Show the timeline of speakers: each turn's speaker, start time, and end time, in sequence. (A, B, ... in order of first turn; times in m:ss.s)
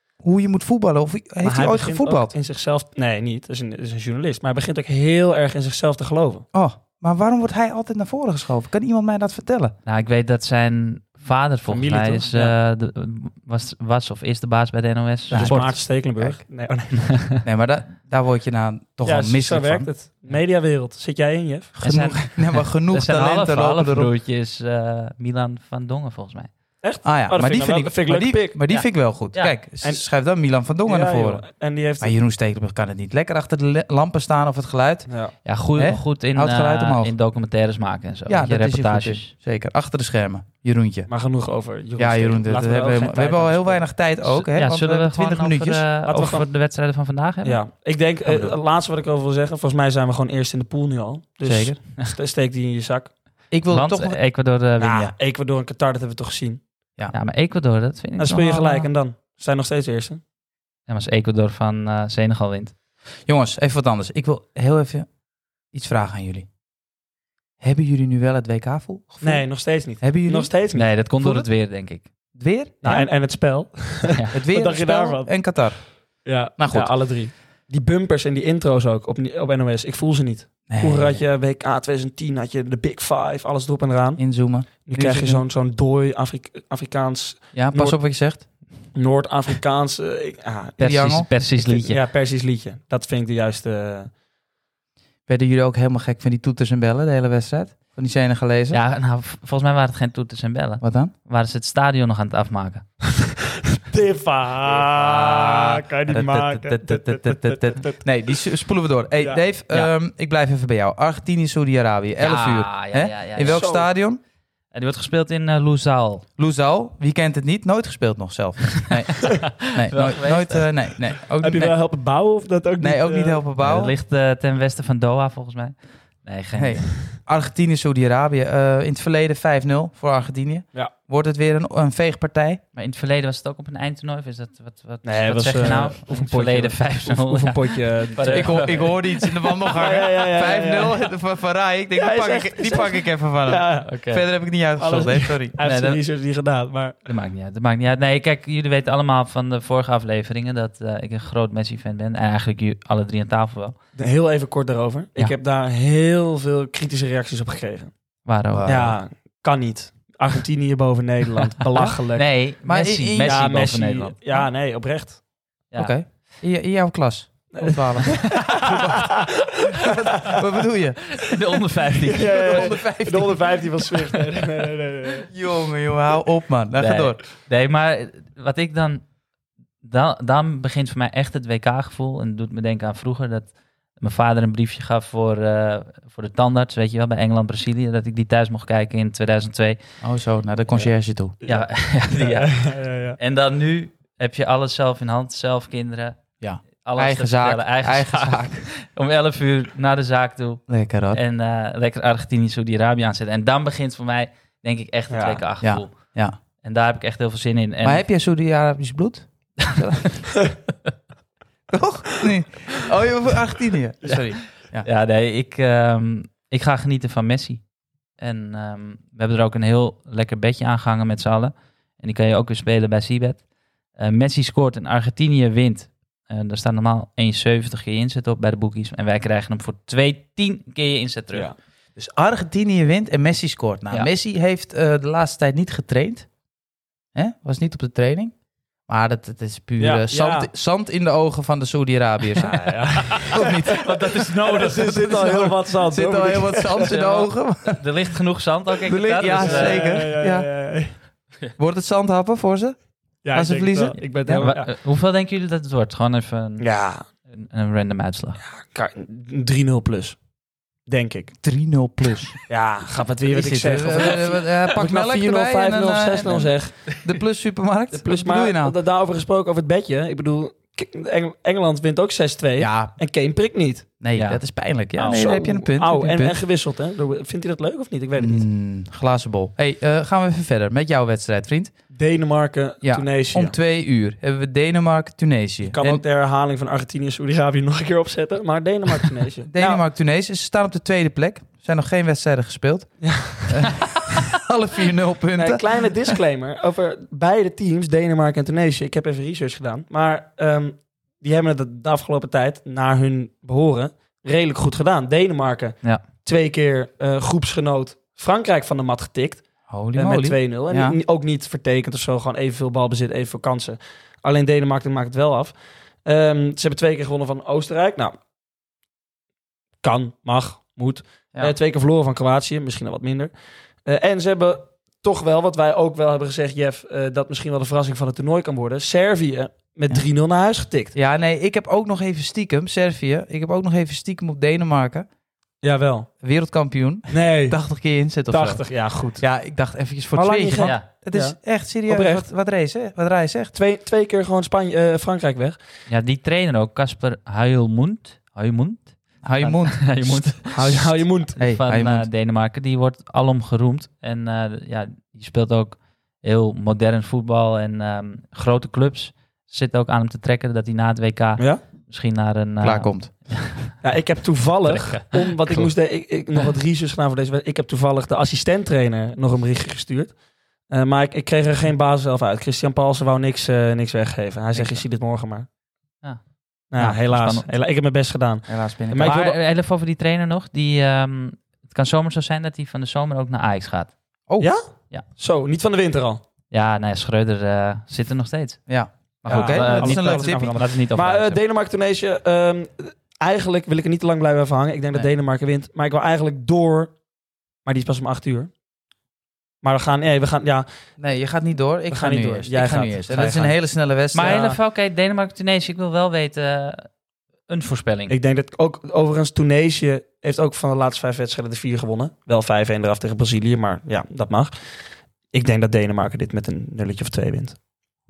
0:00.2-0:02.3 A
0:01.4-0:06.4 B
0:06.5-0:09.7 A
0:09.8-0:15.8 C
0:11.7-0:12.5 B
0:15.3-0:16.4 A
0:15.3-0:17.2 B
0:17.0-0:17.4 C
0:17.4-0:19.9 A
0:19.0-0:21.7 B
0:21.8-0:24.1 A
0:21.8-0:26.5 C
0:26.8-0:28.6 B
0:27.0-0:31.5 A
0:28.7-0:29.6 C
0:30.8-0:32.1 B
0:32.0-0:35.1 A
0:35.1-0:35.3 B
0:35.4-0:39.3 C
0:35.7-0:37.1 A
0:38.3-0:41.1 A
0:41.1-0:44.0 B
0:42.0-0:45.8 A
0:44.2-0:47.6 C
0:46.0-0:46.5 B
0:47.4-0:53.1 B
0:51.4-0:51.8 A
0:53.5-0:54.2 A
0:53.7-0:55.1 C
0:54.8-0:56.6 B
0:57.1-0:58.9 C
0:58.2-1:00.2 B
1:00.9-1:02.7 C
1:03.3-1:05.1 A
1:05.7-1:06.5 A
1:07.6-1:10.5 A
1:09.2-1:10.9 B
1:10.7-1:12.0 C
1:11.2-1:11.5 A
1:12.3-1:13.1 A
1:12.8-1:15.5 B
1:14.1-1:14.4 C
1:14.3-1:16.9 A
1:16.2-1:28.0 B
1:20.7-1:21.2 A
1:24.2-1:25.4 A
1:27.5-1:28.4 A
1:28.9-1:30.8 B
1:30.8-1:32.0 C
1:30.8-1:31.3 A
1:31.4-1:34.1 B
1:35.3-1:38.8 A
1:38.7-1:42.9 C
1:40.8-1:41.1 A
1:43.7-1:48.4 B
1:44.7-1:54.2 A
1:52.2-1:53.6 C
1:53.4-1:53.9 B
1:54.7-1:56.2 C
1:56.4-2:01.7 A
1:59.2-2:00.7 C
2:01.3-2:03.4 B
2:02.8-2:03.9 A
2:03.6-2:07.1 C
2:06.6-2:12.6 A
2:12.7-2:19.6 C
2:15.0-2:18.8 B
2:18.3-2:26.0 A
2:19.7-2:21.1 B
2:22.0-2:23.9 B
2:23.8-2:24.2 C
2:24.8-2:27.1 B
2:25.6-2:26.0 C
2:27.0-2:33.7 C
2:34.0-2:37.9 B
2:38.2-2:38.9 C
2:38.5-2:39.0 A
2:38.6-2:42.4 B
2:42.1-2:44.2 C
2:42.6-2:44.4 A
2:43.2-2:45.2 B
2:45.7-2:46.0 C
2:45.8-2:51.3 A
2:47.5-2:49.2 B
2:48.2-2:48.9 C
2:51.1-2:52.8 C
2:52.1-2:55.3 B
2:52.1-2:54.2 A
2:55.3-2:57.2 A
2:56.8-2:59.0 C
2:59.8-3:09.8 C
3:10.0-3:11.4 A
3:11.4-3:13.2 B
3:11.4-3:16.2 C
3:16.4-3:18.6 A
3:16.8-3:26.1 C
3:20.7-3:21.2 A
3:25.1-3:25.5 B
3:25.6-3:26.4 A
3:26.6-3:28.1 C
3:27.8-3:30.2 A
3:31.7-3:34.9 A
3:34.6-3:51.5 C
3:52.0-3:56.3 A
3:57.1-3:58.3 A
3:58.9-4:02.6 A
3:59.8-4:00.5 B
4:02.4-4:07.0 B
4:03.1-4:04.7 C
4:03.3-4:07.8 A
4:06.8-4:09.9 C
4:08.9-4:10.5 A
4:09.4-4:10.9 B
4:11.6-4:14.5 A
4:13.2-4:14.7 B
4:14.4-4:18.4 C
4:16.6-4:17.0 B
4:18.4-4:20.2 B
4:20.8-4:21.3 B
4:21.4-4:22.4 A
4:22.5-4:27.0 B
4:23.3-4:28.7 A
4:27.9-4:33.9 B
4:32.6-4:33.0 A
4:34.0-4:36.4 A
4:34.1-4:34.4 C
4:35.0-4:38.4 B
4:38.2-4:41.7 A
4:41.9-4:43.5 B
4:42.8-4:46.0 A
4:45.6-4:49.8 B
4:49.5-4:53.0 A
4:53.0-4:53.7 B
4:53.5-4:56.1 A
4:55.3-5:18.1 B
5:09.7-5:11.0 A
5:19.8-5:23.3 B
5:23.8-5:31.0 B
5:30.9-5:35.1 A
5:35.6-5:36.1 B
5:36.2-5:43.5 A
5:37.1-5:37.6 B
5:38.3-5:39.2 B
5:40.1-5:42.3 B
5:43.5-5:45.6 B
5:45.9-6:03.7 C
5:49.2-5:50.8 A
5:50.5-5:51.4 B
5:51.4-5:52.1 A
6:02.6-6:03.3 A
6:03.8-6:15.4 B
6:04.6-6:05.7 C
6:16.7-6:19.4 B
6:16.7-6:17.5 C
6:18.5-6:19.2 A
6:19.0-6:24.0 C
6:24.4-6:26.2 B
6:26.5-6:31.4 C
6:28.7-6:30.6 A
6:29.3-6:37.0 B
6:37.6-6:38.5 B
6:39.6-6:40.6 B
6:41.0-6:44.4 A
6:41.9-6:43.5 B
6:44.1-6:46.9 C
6:44.2-6:44.6 B
6:47.5-6:48.1 C
6:48.1-6:57.6 B